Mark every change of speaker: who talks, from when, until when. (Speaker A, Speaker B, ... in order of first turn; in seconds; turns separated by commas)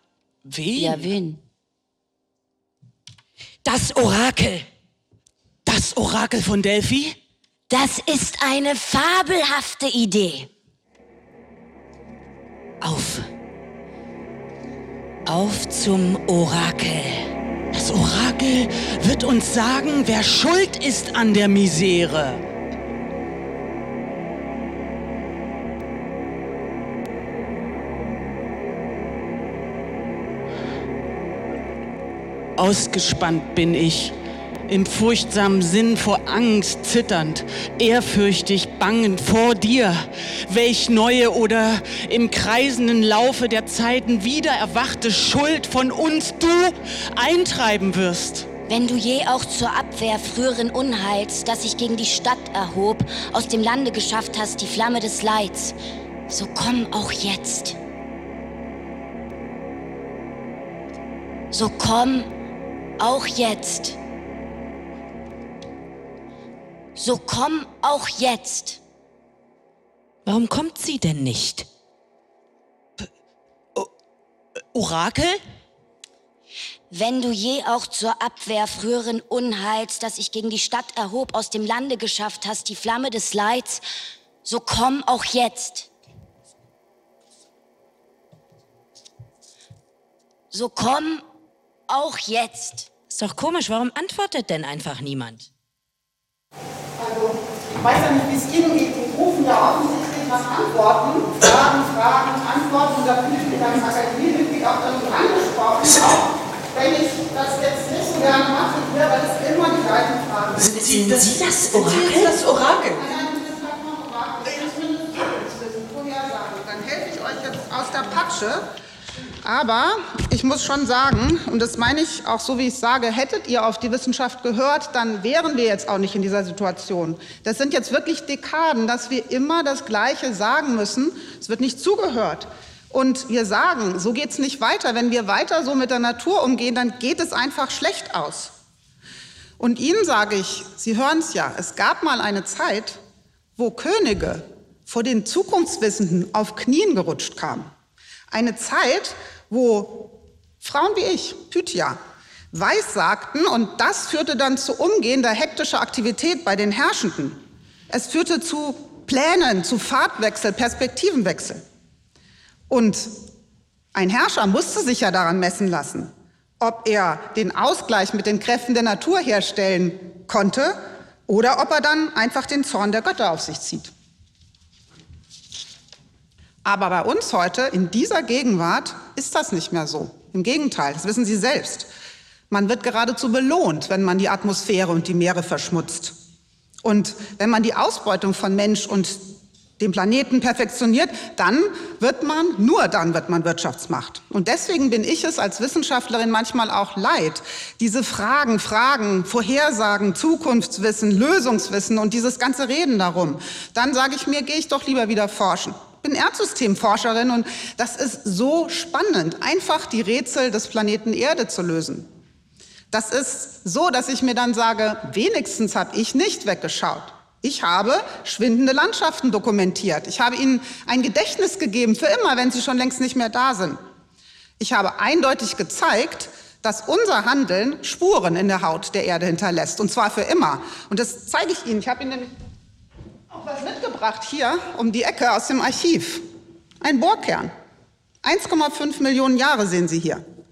Speaker A: 0.5-1.1, Speaker B: 0.8-1.4, Speaker C: 3.6-4.7, Speaker A: 5.7-7.2, Speaker B: 7.7-10.5, Speaker C: 12.8-13.2, Speaker C: 15.2-17.3, Speaker A: 17.7-22.4, Speaker A: 32.6-34.1, Speaker A: 34.7-48.5, Speaker B: 48.7-55.8, Speaker B: 56.3-57.8, Speaker B: 61.5-62.3, Speaker B: 63.0-64.0, Speaker B: 67.0-68.8, Speaker C: 70.2-71.7, Speaker A: 74.7-75.4, Speaker B: 76.9-83.8, Speaker B: 84.5-85.9, Speaker B: 90.5-91.2, Speaker B: 91.9-92.9, Speaker C: 93.1-95.5, Speaker D: 97.0-110.8, Speaker A: 110.6-113.0, Speaker C: 111.1-112.4, Speaker D: 112.9-118.7, Speaker D: 119.4-138.5, Speaker D: 139.6-143.0, Speaker D: 143.6-147.7, Speaker D: 148.3-152.0, Speaker D: 152.5-161.6, Speaker D: 162.7-163.1, Speaker D: 163.9-173.9, Speaker D: 176.6-181.9, Speaker D: 182.5-186.1, Speaker D: 186.8-189.2, Speaker D: 189.8-212.1, Speaker D: 212.9-223.8, Speaker D: 224.6-232.3, Speaker D: 233.3-236.2, Speaker D: 236.8-237.5, Speaker D: 238.2-240.2